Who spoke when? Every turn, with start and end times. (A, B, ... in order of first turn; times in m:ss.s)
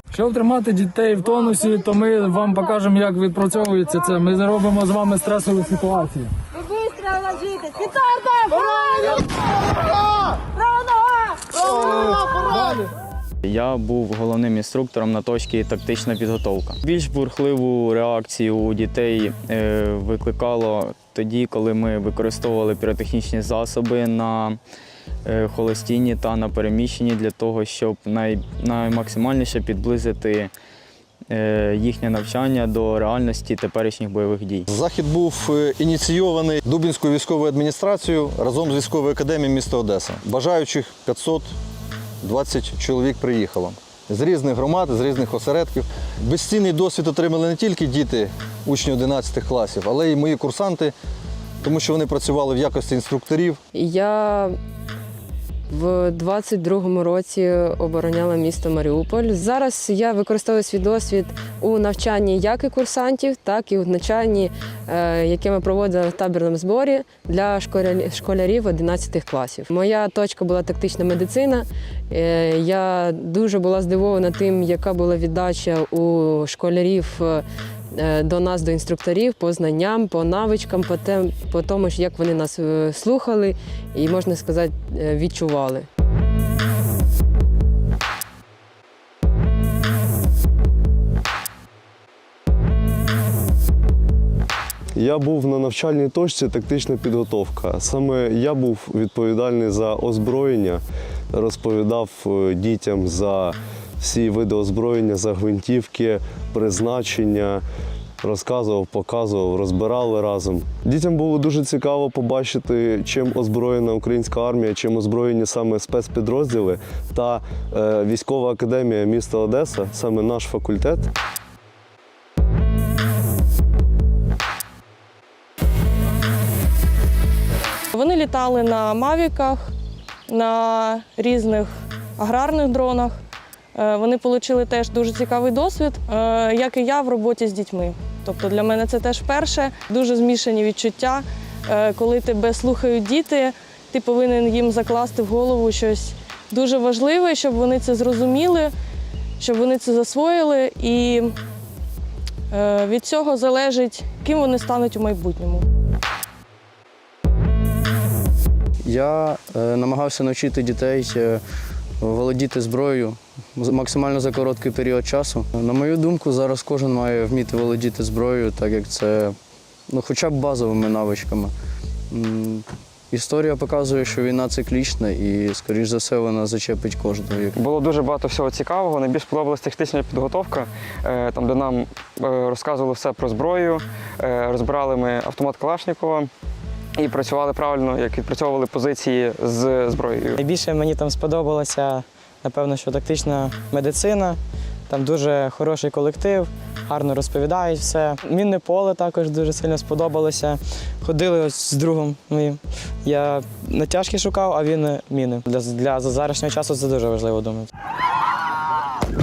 0:00.1-0:06.4 A
0:07.3-0:09.2 A
0:11.4-0:12.9 A
0:13.4-0:24.6 B
0:25.3-0:30.5 B
0:31.3-0:34.7 B
0:34.7-0:41.5 C
0:42.2-0:50.9 C
0:51.6-0:53.6 C
0:53.7-0:54.6 D
0:55.7-1:25.9 D
1:35.0-1:47.6 E
1:48.2-2:01.1 E
2:07.9-2:09.7 F
2:10.3-2:13.2 F
2:13.8-2:28.7 F
2:29.4-2:31.4 F
2:32.5-2:35.6 F
2:38.8-2:41.4 G
2:42.0-2:49.4 G
2:49.9-2:51.5 G
2:52.1-2:57.6 G
2:57.6-3:06.3 H
3:07.0-3:10.4 H
3:10.4-3:27.7 I